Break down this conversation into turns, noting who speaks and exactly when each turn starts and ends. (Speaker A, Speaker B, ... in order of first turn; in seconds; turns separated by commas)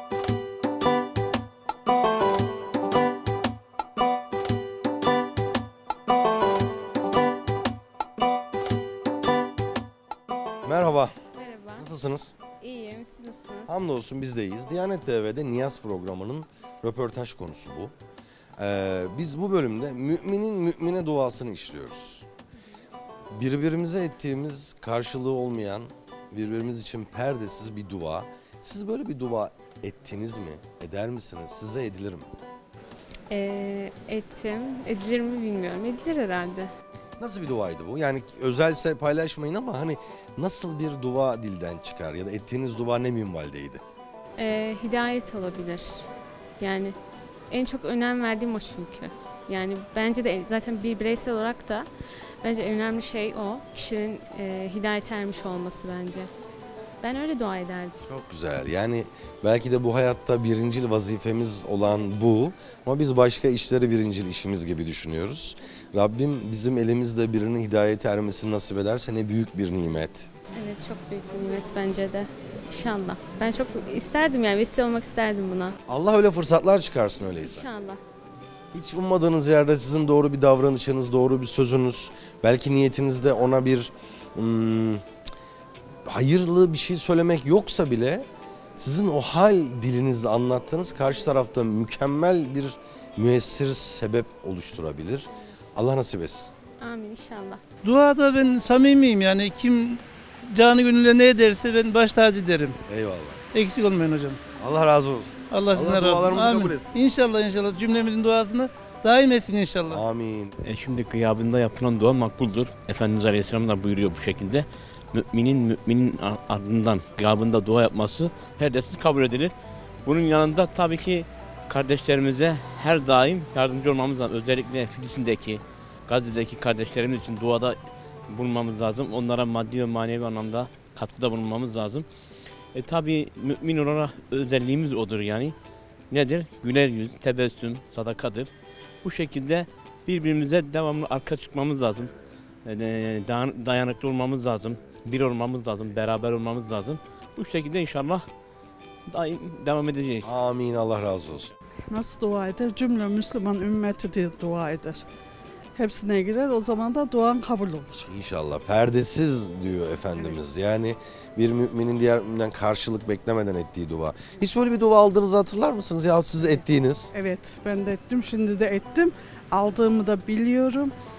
Speaker A: 10.7-11.2, Speaker B: 11.3-11.9, Speaker A: 11.8-12.3, Speaker B: 12.6-13.8, Speaker A: 13.7-17.9, Speaker A: 18.6-22.3, Speaker A: 23.3-32.3, Speaker B: 33.3-36.7, Speaker A: 37.2-43.8, Speaker B: 44.4-46.1, Speaker B: 46.6-47.0, Speaker B: 47.5-51.9, Speaker B: 52.4-56.3, Speaker B: 57.0-58.0, Speaker A: 58.0-70.3, Speaker B: 70.5-75.8, Speaker A: 75.9-77.7, Speaker B: 77.4-78.0, Speaker A: 78.7-85.1, Speaker A: 86.0-96.5, Speaker B: 96.8-97.6, Speaker C: 97.8-102.8, Speaker A: 102.9-103.4, Speaker C: 103.5-104.4, Speaker A: 104.6-106.9, Speaker C: 105.5-110.0, Speaker A: 109.9-110.5, Speaker D: 110.6-119.5, Speaker D: 120.0-132.1, Speaker D: 132.7-135.6, Speaker D: 136.1-138.5, Speaker D: 139.0-142.1, Speaker D: 142.7-148.3, Speaker D: 149.1-150.3, Speaker A: 150.2-151.5, Speaker E: 151.9-155.0, Speaker E: 155.8-158.1, Speaker A: 158.1-167.1, Speaker E: 167.1-170.9